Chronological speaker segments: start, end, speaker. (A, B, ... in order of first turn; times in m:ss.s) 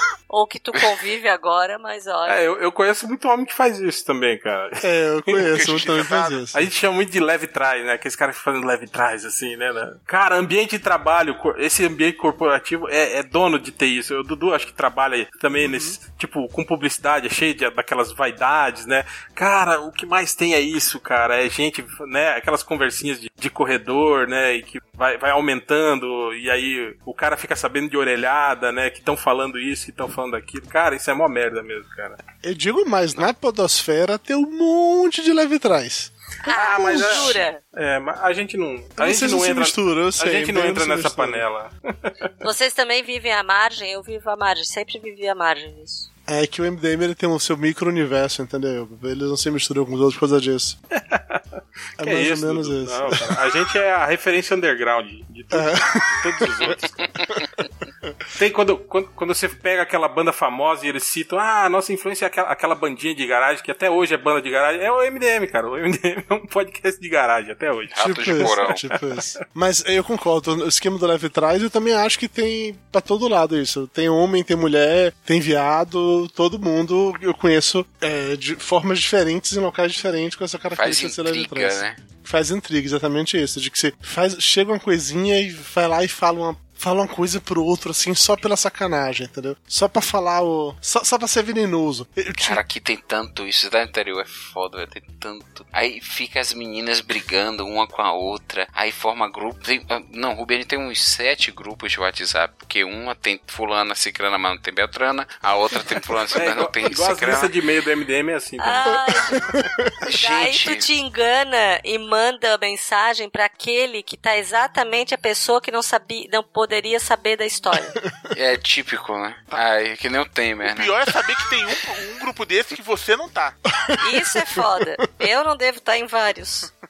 0:00.3-0:02.5 A
0:02.2-0:05.6 B
0:04.8-0:06.7 C
0:05.5-0:06.4 D
0:06.5-0:32.2 B
0:15.6-0:16.0 C
0:32.4-0:36.1 C
0:36.4-0:37.6 A
0:36.5-0:42.1 B
0:36.7-0:37.4 C
0:39.0-0:41.4 C
0:42.4-0:46.1 A
0:46.3-0:50.8 C
0:50.9-0:51.4 B
0:52.0-0:53.4 C
0:52.0-0:57.1 B
0:55.5-0:56.8 C
0:58.3-1:09.0 B
1:07.9-1:08.8 E
1:08.0-1:32.6 C
1:20.7-1:22.0 E
1:32.4-1:47.5 E
1:46.3-1:49.2 B
1:48.6-1:49.5 A
1:49.3-1:49.9 C
1:50.0-1:50.9 E
1:50.1-1:58.0 A
1:58.3-2:01.0 E
2:00.6-2:03.6 D
2:03.9-2:04.6 C
2:04.0-2:06.7 A